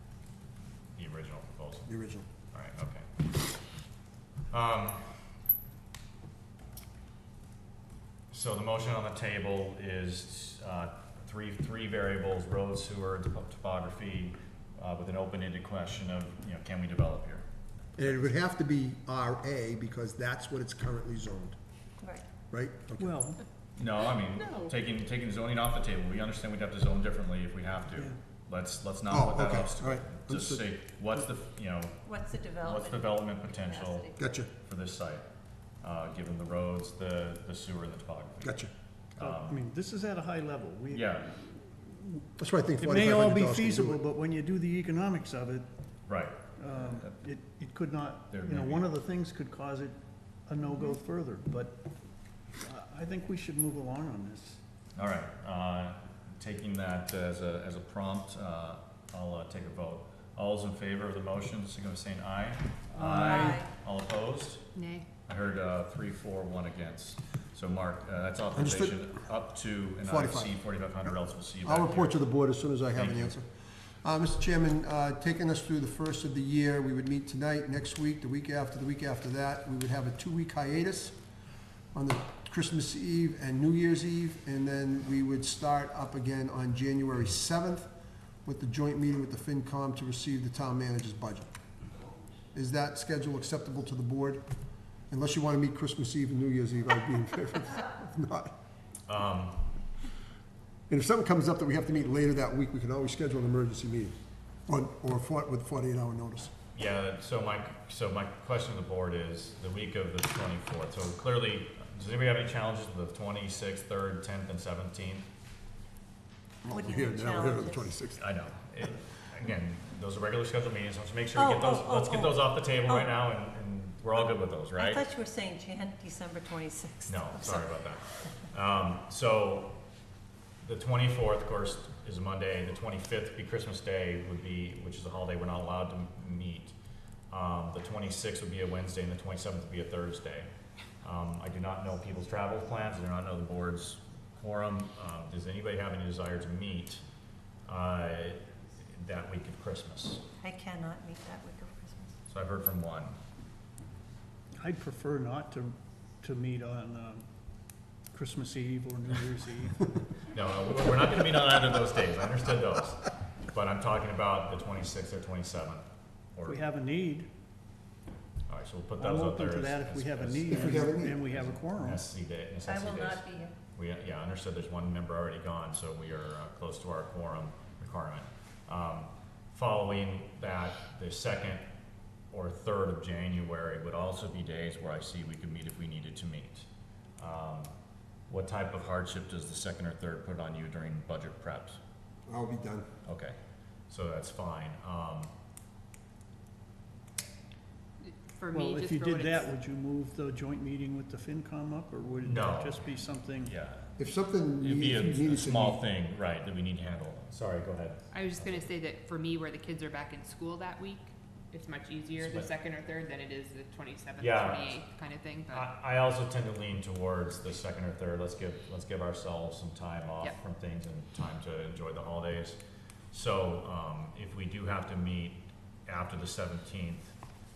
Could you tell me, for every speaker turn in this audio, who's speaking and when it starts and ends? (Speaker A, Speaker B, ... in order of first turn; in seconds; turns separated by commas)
Speaker A: 1.0-1.9, Speaker B: 1.9-2.3, Speaker A: 2.5-3.4, Speaker A: 4.5-5.2, Speaker A: 8.3-17.5, Speaker B: 18.0-21.6, Speaker B: 22.5-23.1, Speaker C: 23.0-23.4, Speaker A: 23.8-35.2, Speaker B: 29.1-30.6, Speaker D: 32.1-34.2, Speaker B: 34.2-34.5, Speaker A: 35.8-39.6, Speaker B: 38.4-38.7, Speaker C: 39.2-42.2, Speaker A: 40.9-41.3, Speaker B: 42.4-44.0, Speaker C: 42.8-45.7, Speaker A: 46.1-47.1, Speaker C: 46.6-51.8, Speaker A: 48.3-48.9, Speaker D: 50.6-51.0, Speaker C: 52.5-54.6, Speaker A: 55.0-64.7, Speaker C: 63.0-63.6, Speaker D: 63.3-63.7, Speaker E: 64.8-65.0, Speaker A: 65.3-72.2, Speaker B: 68.5-69.1, Speaker B: 70.0-70.5, Speaker B: 71.6-81.2, Speaker A: 72.9-73.3, Speaker B: 81.9-87.9, Speaker B: 88.5-91.5, Speaker B: 92.5-94.4, Speaker B: 95.1-98.5, Speaker A: 99.1-99.6, Speaker B: 100.9-106.5, Speaker A: 106.7-115.3, Speaker B: 116.7-118.2, Speaker D: 116.7-117.9, Speaker A: 118.2-125.0, Speaker D: 121.3-123.2, Speaker D: 124.8-127.8, Speaker A: 127.1-129.8, Speaker A: 130.6-136.8, Speaker A: 137.3-140.5, Speaker A: 141.0-147.0, Speaker A: 147.7-150.2, Speaker D: 150.4-152.2, Speaker A: 152.3-153.2, Speaker C: 154.6-157.3, Speaker C: 158.1-159.9, Speaker A: 160.3-166.6, Speaker C: 166.5-167.3, Speaker A: 168.5-181.7, Speaker C: 169.0-172.1, Speaker B: 170.5-171.2, Speaker D: 172.7-173.6, Speaker A: 182.3-186.7, Speaker A: 187.2-187.7, Speaker A: 188.3-191.8, Speaker B: 192.3-192.9, Speaker A: 193.1-193.4, Speaker A: 193.9-195.3, Speaker E: 198.0-199.5, Speaker C: 198.5-203.5, Speaker A: 202.2-203.9, Speaker B: 204.0-205.8, Speaker A: 204.6-208.7, Speaker E: 208.1-215.7, Speaker A: 212.2-212.5, Speaker A: 214.2-214.8, Speaker A: 215.5-222.6, Speaker A: 223.1-227.2